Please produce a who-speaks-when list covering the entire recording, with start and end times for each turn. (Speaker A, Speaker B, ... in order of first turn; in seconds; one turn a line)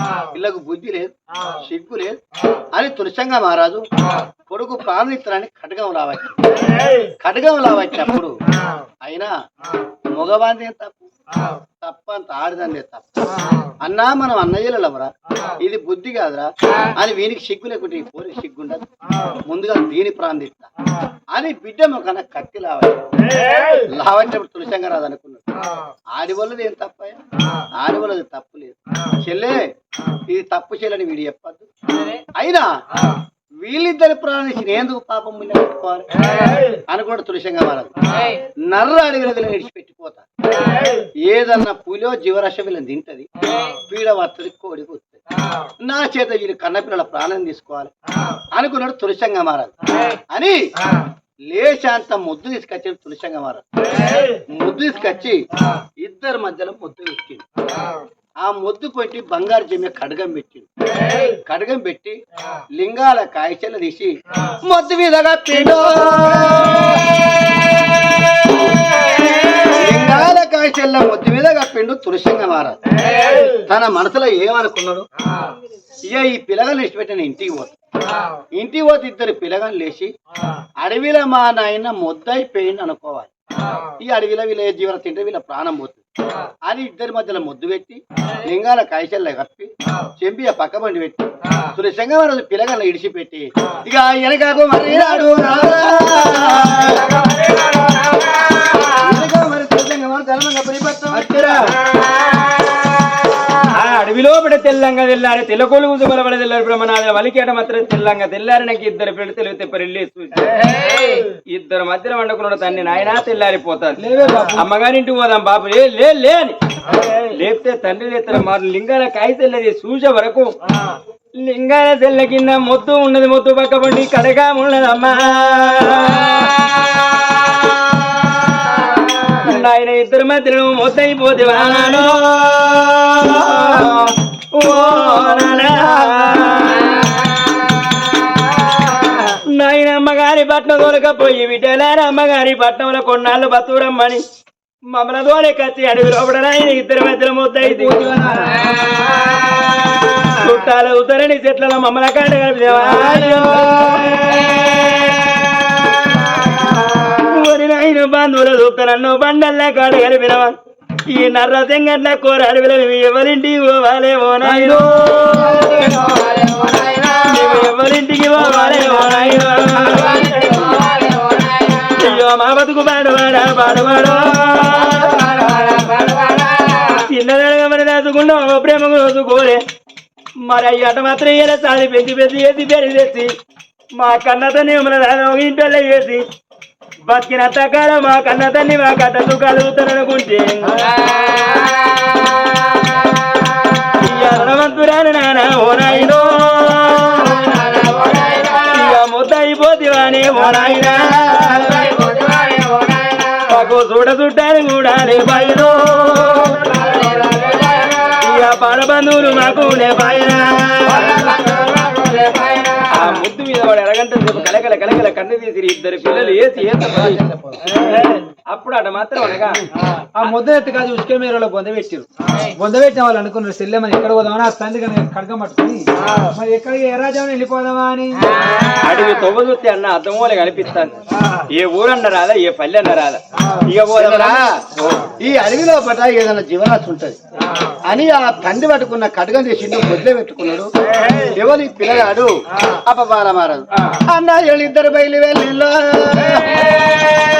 Speaker A: 0.3-2.2
Speaker A: 2.7-3.9
Speaker A: 4.5-6.4
Speaker A: 7.2-8.3
Speaker A: 9.0-9.3
Speaker A: 10.1-11.1
Speaker A: 11.8-18.9
Speaker A: 19.4-20.7
Speaker A: 21.3-23.1
Speaker A: 23.7-25.4
Speaker A: 26.1-27.2
Speaker A: 27.7-29.7
Speaker A: 30.3-31.7
Speaker A: 32.3-32.8
Speaker A: 33.6-36.1
Speaker A: 36.9-37.9
Speaker A: 38.6-40.2
Speaker A: 41.2-45.2
Speaker A: 45.8-47.9
Speaker A: 48.5-49.7
Speaker A: 50.3-50.7
Speaker A: 51.5-53.6
Speaker A: 54.4-55.5
Speaker A: 56.0-57.4
Speaker A: 58.4-60.7
Speaker A: 61.5-62.2
Speaker A: 62.8-67.3
Speaker A: 69.7-72.8
Speaker A: 73.5-75.1
Speaker A: 76.1-77.7
Speaker A: 78.5-80.1
Speaker A: 80.8-83.3
Speaker A: 84.0-86.0
Speaker A: 86.7-97.1
Speaker A: 99.0-101.6
Speaker B: 101.1-101.7
Speaker C: 103.7-110.7
Speaker C: 111.3-114.0
Speaker B: 114.0-114.7
Speaker C: 114.5-116.5
Speaker C: 117.3-120.5
Speaker C: 121.4-137.2
Speaker C: 139.4-144.2
Speaker C: 144.9-148.0
Speaker B: 147.6-148.5
Speaker C: 150.2-160.6
Speaker B: 152.7-154.1
Speaker C: 161.1-170.8
Speaker B: 164.4-165.8
Speaker B: 168.4-169.5
Speaker C: 171.8-179.6
Speaker C: 180.4-183.3
Speaker C: 184.0-186.2
Speaker C: 187.1-191.6
Speaker C: 193.9-202.2
Speaker C: 203.4-207.1
Speaker C: 208.1-211.5
Speaker C: 212.9-217.2
Speaker A: 216.9-217.6
Speaker C: 218.5-219.6
Speaker B: 220.2-228.2
Speaker C: 228.8-230.9
Speaker C: 231.5-235.1
Speaker A: 233.9-234.6
Speaker A: 235.2-237.2
Speaker A: 237.8-240.7
Speaker A: 241.3-246.7
Speaker C: 243.8-244.0